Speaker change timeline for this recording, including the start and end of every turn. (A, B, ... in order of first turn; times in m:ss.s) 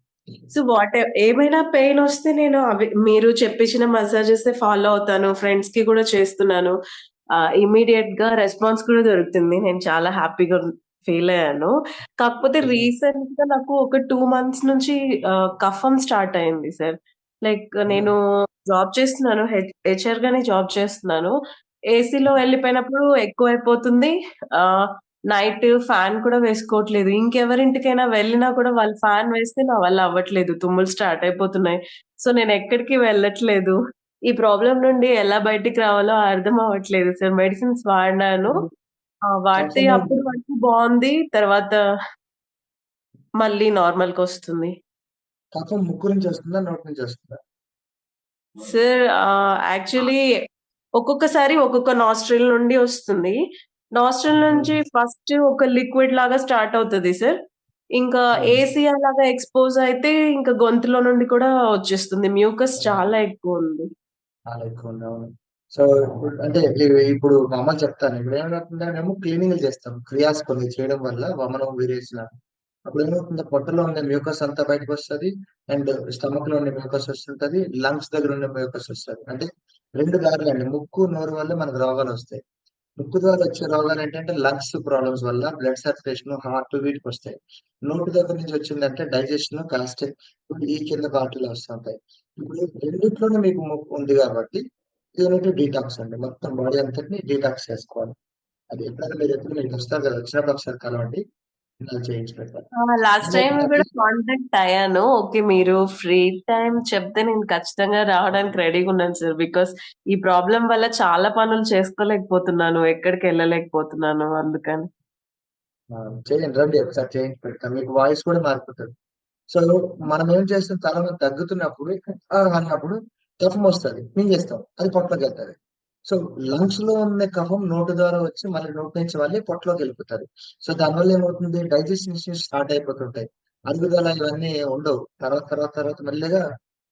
0:00.5-0:06.8 A
0:07.4-0:15.0 A
0:12.6-0:12.9 B
0:15.6-0:21.3 A
0:21.9-0:33.8 A
0:34.3-0:38.6 A
0:39.4-0:41.8 A
0:39.5-0:40.2 B
0:43.4-0:44.7 A
0:45.6-0:47.4 B
0:48.6-0:50.2 A
0:51.0-0:53.4 A
0:54.0-0:57.3 A
0:54.4-0:54.7 B
0:58.0-1:03.9 A
1:04.5-1:12.3 B
1:12.9-1:22.4 B
1:23.0-1:27.4 B
1:27.9-1:34.6 B
1:35.2-1:38.1 B
1:38.7-1:41.2 B
1:41.9-1:42.6 B
1:42.8-1:54.9 A
1:43.2-1:43.9 B
1:55.9-1:58.9 B
1:59.5-2:05.6 B
2:06.1-2:16.4 B